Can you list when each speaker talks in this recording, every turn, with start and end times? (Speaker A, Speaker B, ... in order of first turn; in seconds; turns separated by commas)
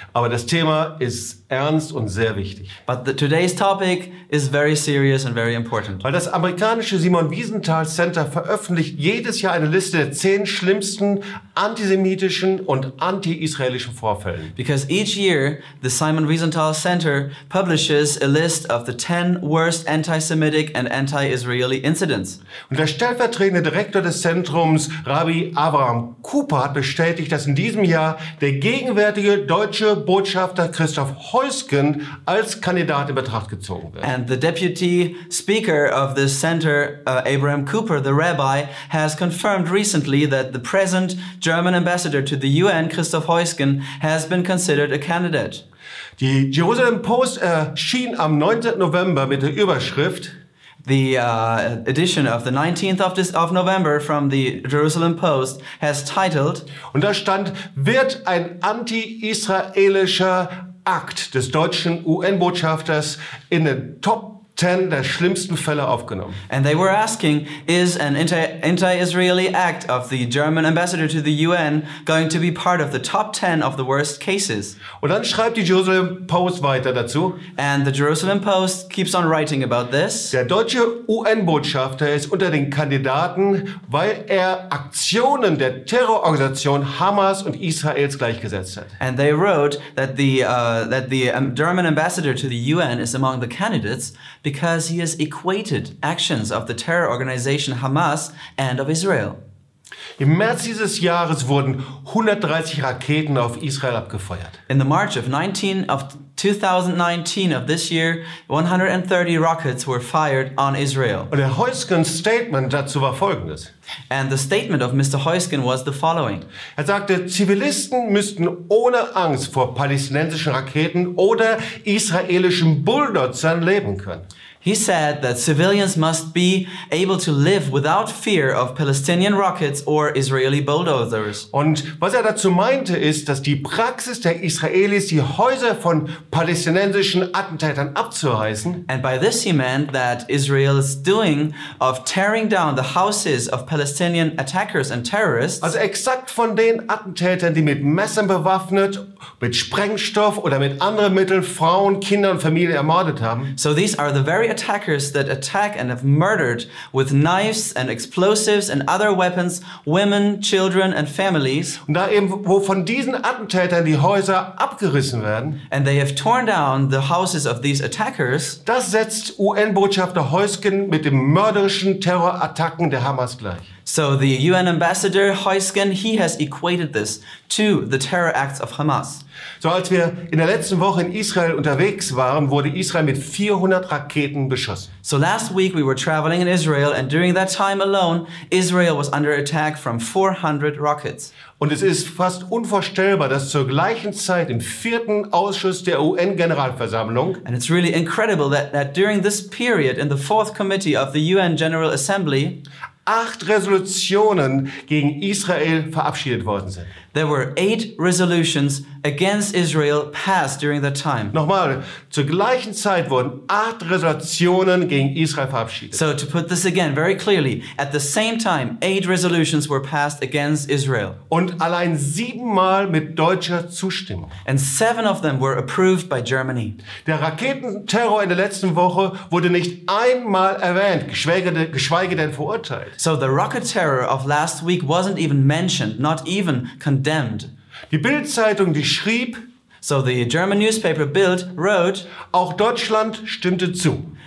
Speaker A: 0.1-2.7, Speaker B: 2.9-6.0, Speaker A: 6.0-14.5, Speaker B: 14.6-22.4, Speaker A: 22.7-34.1, Speaker B: 34.0-45.6, Speaker A: 46.2-50.3, Speaker B: 50.8-56.7, Speaker A: 56.9-66.4, Speaker B: 66.5-74.8, Speaker A: 75.0-77.4, Speaker B: 77.6-80.3, Speaker A: 80.3-89.0, Speaker B: 89.0-99.4, Speaker A: 100.2-104.5, Speaker B: 104.7-111.3, Speaker A: 111.3-113.7, Speaker B: 114.1-116.4, Speaker A: 116.8-124.2, Speaker B: 124.6-131.4, Speaker A: 131.5-138.8, Speaker B: 138.9-145.8, Speaker A: 145.6-153.5, Speaker B: 153.6-161.8, Speaker A: 161.9-165.6, Speaker B: 165.7-168.6, Speaker A: 168.6-173.7, Speaker B: 173.9-179.2, Speaker A: 179.6-184.9, Speaker B: 185.0-191.3, Speaker A: 191.6-197.4, Speaker B: 197.4-202.6, Speaker A: 203.1-206.9, Speaker B: 207.1-211.3, Speaker A: 211.3-216.0, Speaker B: 215.9-221.2, Speaker A: 221.3-224.3, Speaker B: 224.5-226.8, Speaker A: 227.1-232.9, Speaker B: 233.0-237.5, Speaker A: 237.9-239.4, Speaker B: 239.8-242.1, Speaker A: 242.3-244.1